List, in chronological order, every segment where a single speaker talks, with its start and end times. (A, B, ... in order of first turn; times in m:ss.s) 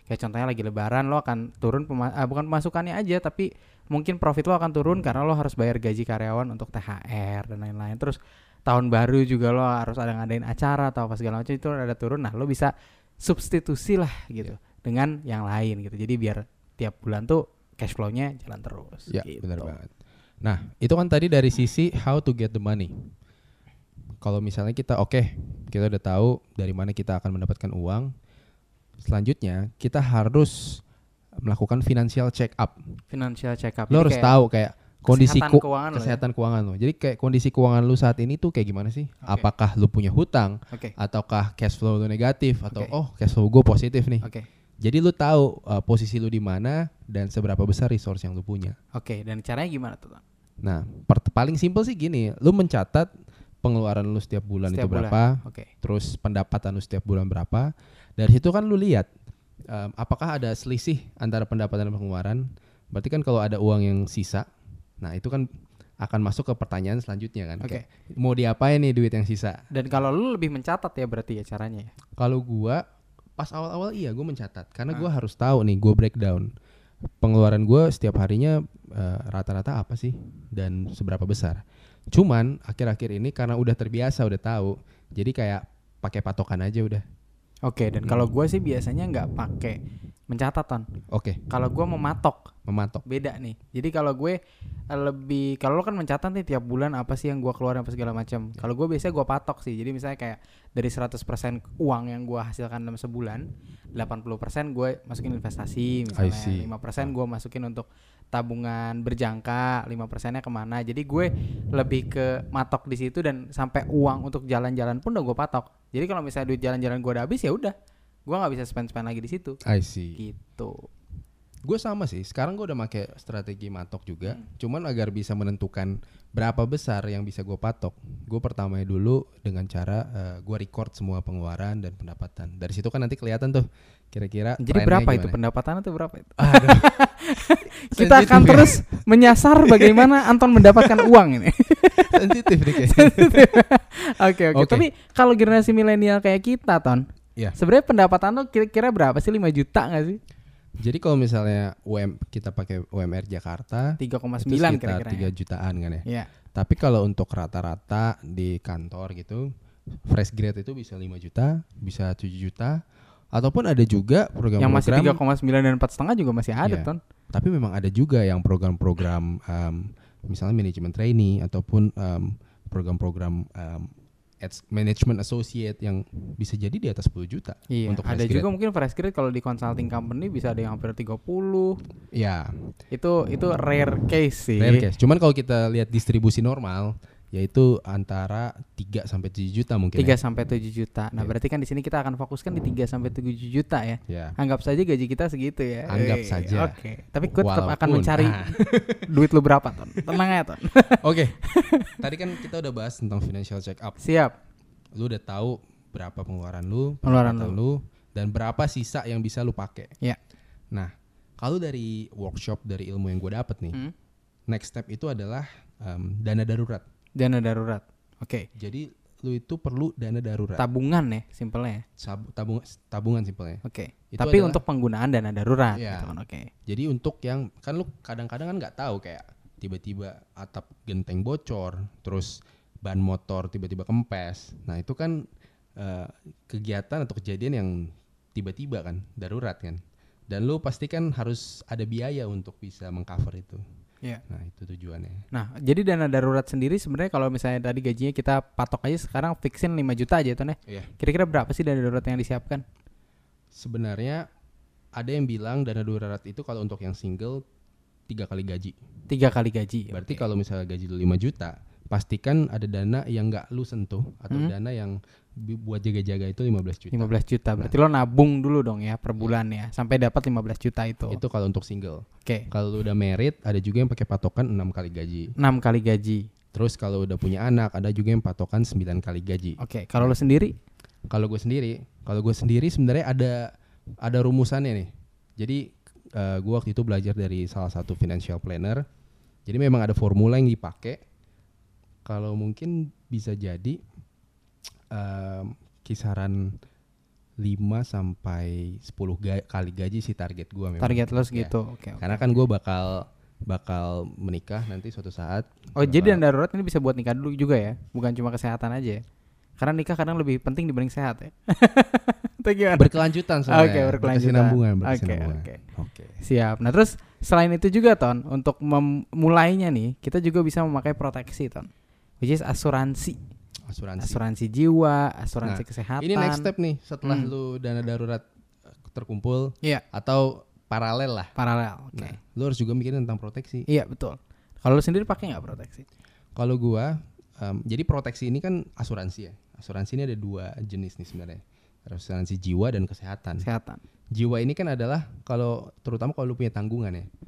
0:00.1-0:12.7 A
0:13.2-0:19.8 A
0:19.1-0:19.9 B
0:20.4-0:23.1 B
0:24.2-0:28.1 B
0:29.0-0:30.8 B
0:31.4-0:32.8 B
0:33.1-0:34.3 A
0:33.9-0:44.3 B
0:35.1-0:36.2 A
0:44.8-0:48.8 B
0:49.0-0:50.2 A
0:50.6-0:53.1 B
0:53.6-0:59.1 B
0:54.7-0:55.7 A
0:59.7-1:04.5 B
1:05.0-1:05.5 B
1:06.0-1:09.7 B
1:09.7-1:11.9 A
1:12.2-1:12.8 B
1:13.4-1:16.5 B
1:17.2-1:21.6 B
1:22.1-1:27.0 B
1:27.7-1:29.8 A
1:30.3-1:30.9 A
1:31.1-1:31.4 B
1:31.5-1:32.5 A
1:32.7-1:33.0 B
1:33.1-1:34.4 A
1:34.9-1:57.8 A
1:46.1-1:47.1 B
1:58.3-1:59.6 A
1:59.6-2:00.2 B
2:00.2-2:00.9 A
2:01.7-2:15.4 B
2:14.6-2:30.2 A
2:16.4-2:17.0 B
2:17.5-2:21.2 B
2:21.8-2:23.6 B
2:24.5-2:24.9 B
2:30.8-2:39.5 B
2:34.0-2:35.3 A
2:40.1-2:42.8 B
2:43.3-2:45.2 B
2:44.6-2:47.0 A
2:46.6-2:58.5 B
2:57.7-3:01.8 A
3:02.1-3:02.7 B
3:02.9-3:04.9 A
3:04.6-3:10.2 B
3:10.0-3:22.0 A
3:14.1-3:14.4 B
3:15.9-3:19.1 B
3:20.8-3:21.4 B
3:22.0-3:24.0 B
3:24.0-3:24.3 A
3:25.0-3:29.9 B
3:27.0-3:27.6 A
3:30.7-3:33.8 B
3:34.5-3:36.8 B
3:37.2-3:38.5 A
3:38.6-3:40.6 B
3:40.6-3:41.8 A
3:42.0-3:44.6 B
3:43.6-3:46.5 A
3:45.7-3:46.1 B
3:46.7-3:55.3 B
3:55.8-4:03.6 B
4:04.3-4:05.3 B
4:05.3-4:12.6 A
4:13.6-4:14.3 B
4:15.0-4:17.4 B
4:18.1-4:18.8 B
4:19.1-4:20.2 A
4:19.9-4:27.7 B
4:26.9-4:31.2 A
4:31.1-4:35.3 B
4:35.4-4:36.3 A
4:36.5-4:40.2 B
4:39.6-4:40.5 A
4:41.1-4:48.8 B
4:49.5-4:51.0 B
4:52.0-4:53.8 B
4:54.9-4:56.6 B
4:57.4-5:06.2 B
5:00.8-5:02.4 A
5:05.8-5:09.0 A
5:09.6-5:15.6 A
5:12.8-5:16.2 B
5:16.2-5:21.7 A
5:22.2-5:23.2 A
5:23.7-5:24.2 B
5:24.0-5:26.5 A
5:25.4-5:28.2 B
5:27.0-5:27.3 A
5:28.9-5:31.3 B
5:31.4-5:32.2 A
5:31.9-5:33.7 B
5:33.7-5:35.8 A
5:36.4-5:43.5 B
5:43.4-5:43.8 A
5:44.1-5:47.1 B